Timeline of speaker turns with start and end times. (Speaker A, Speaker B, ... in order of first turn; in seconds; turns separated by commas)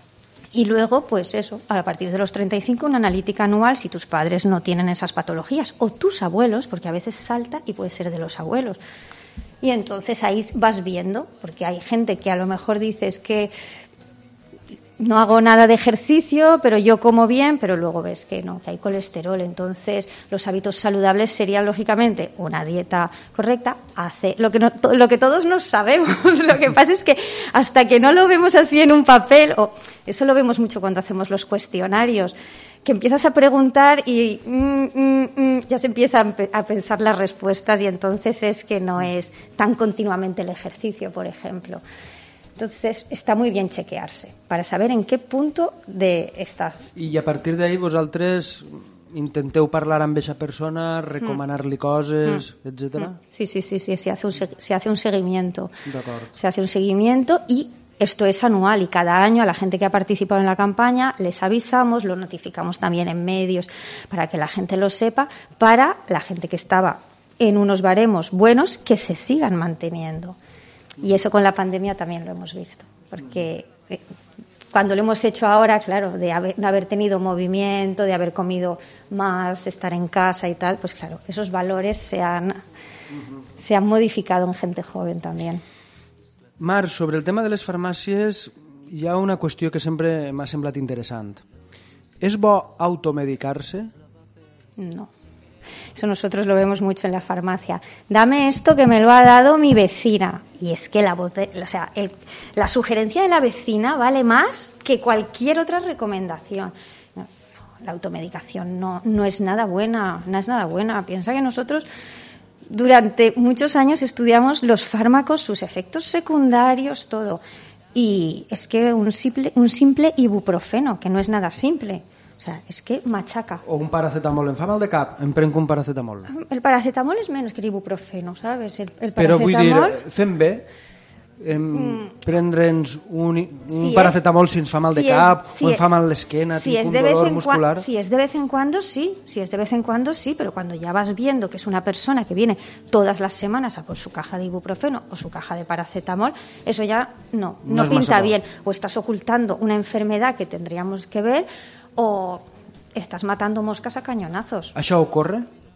Speaker A: 0.5-8.8, Speaker A: 9.6-13.5, Speaker A: 15.0-41.8, Speaker A: 42.6-47.0, Speaker B: 47.0-53.2, Speaker A: 53.1-55.8, Speaker B: 55.9-56.3, Speaker A: 56.4-70.4, Speaker A: 71.0-74.0, Speaker A: 74.7-82.6, Speaker A: 83.6-85.6, Speaker B: 86.6-91.4, Speaker B: 92.2-93.9, Speaker A: 94.8-95.1, Speaker A: 96.0-111.9, Speaker A: 112.7-117.4, Speaker A: 118.0-123.6, Speaker B: 123.7-126.3, Speaker A: 126.3-130.0, Speaker B: 129.2-130.7, Speaker B: 131.4-137.8, Speaker A: 133.7-134.2, Speaker A: 134.9-135.8, Speaker A: 136.6-154.8, Speaker B: 147.6-148.4, Speaker B: 154.8-155.5